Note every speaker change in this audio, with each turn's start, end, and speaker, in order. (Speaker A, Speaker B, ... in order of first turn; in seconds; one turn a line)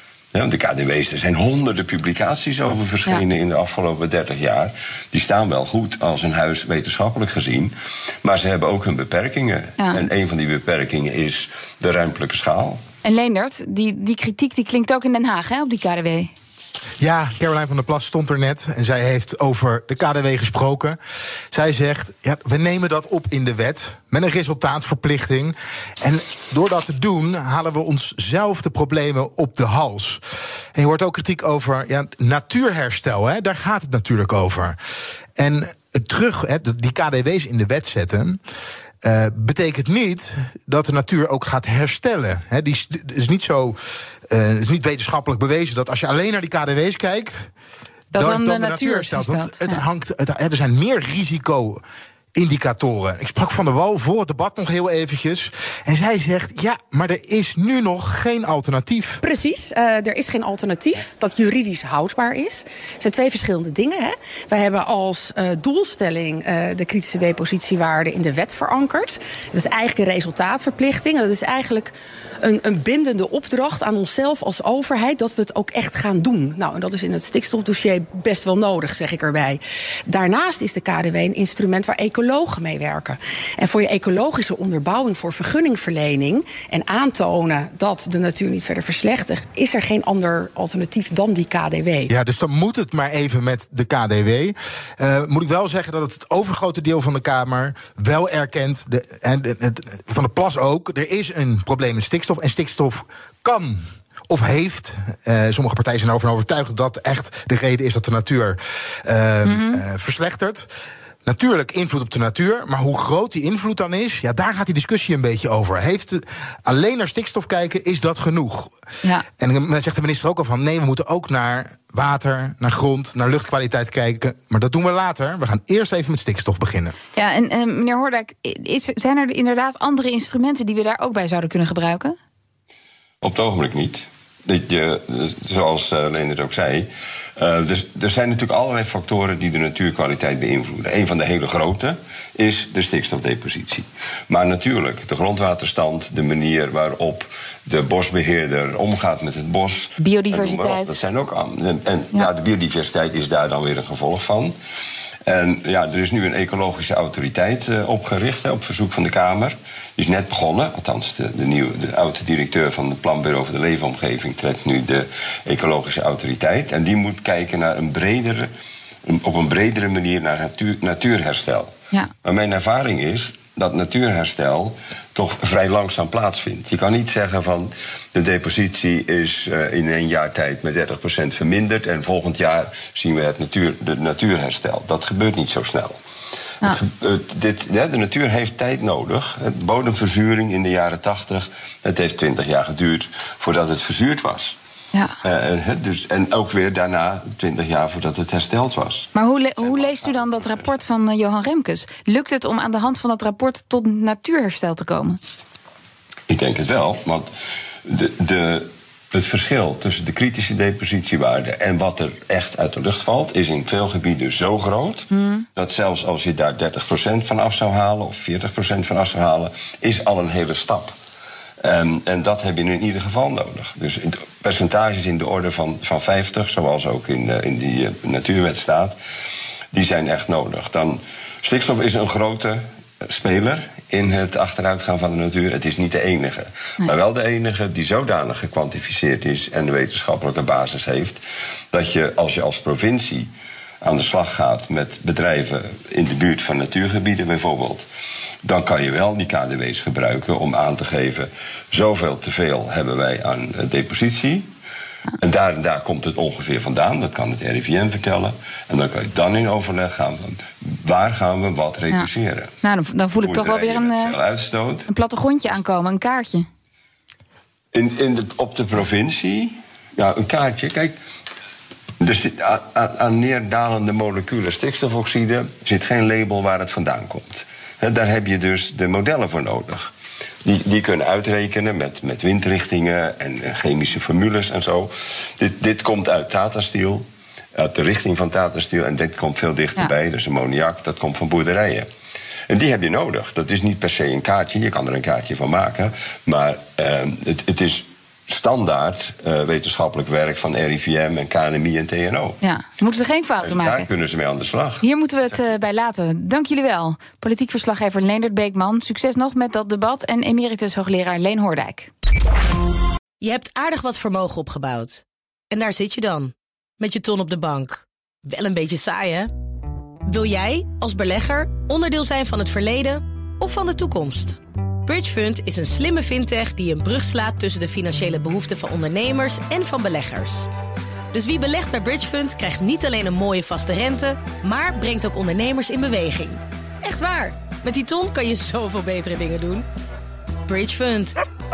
Speaker A: 0.3-12.8
Speaker B: 13.0-16.3
Speaker C: 17.0-21.0
Speaker C: 21.5-30.2
Speaker C: 30.7-34.8
Speaker C: 35.4-38.4
Speaker C: 39.0-43.8
Speaker C: 44.3-47.5
Speaker B: 48.1-49.8
Speaker C: 48.1-51.8
Speaker C: 52.3-59.2
Speaker D: 59.2-92.1
Speaker C: 92.1-110.7
Speaker B: 109.4-109.8
Speaker C: 111.2-118.7
Speaker C: 119.3-127.0
Speaker B: 127.2-132.2
Speaker A: 133.2-154.6
Speaker B: 150.1-150.9
Speaker A: 155.3-168.5
Speaker A: 169.1-171.7
Speaker A: 172.2-186.0
Speaker A: 186.6-194.6
Speaker A: 195.2-200.7
Speaker B: 199.2-205.2
Speaker A: 206.3-207.3
Speaker A: 207.8-220.9
Speaker B: 215.2-215.4
Speaker A: 221.6-228.9
Speaker A: 229.7-243.3
Speaker A: 243.8-247.9
Speaker A: 248.4-254.5
Speaker A: 255.2-262.6
Speaker B: 262.9-264.1
Speaker A: 263.2-264.9
Speaker B: 264.9-266.4
Speaker A: 267.7-270.9
Speaker A: 272.0-279.9
Speaker A: 280.4-291.9
Speaker A: 292.5-302.4
Speaker B: 302.4-303.9
Speaker A: 303.4-304.8
Speaker B: 304.8-311.9
Speaker E: 313.2-319.3
Speaker E: 320.1-330.5
Speaker E: 331.1-339.7
Speaker E: 340.4-341.1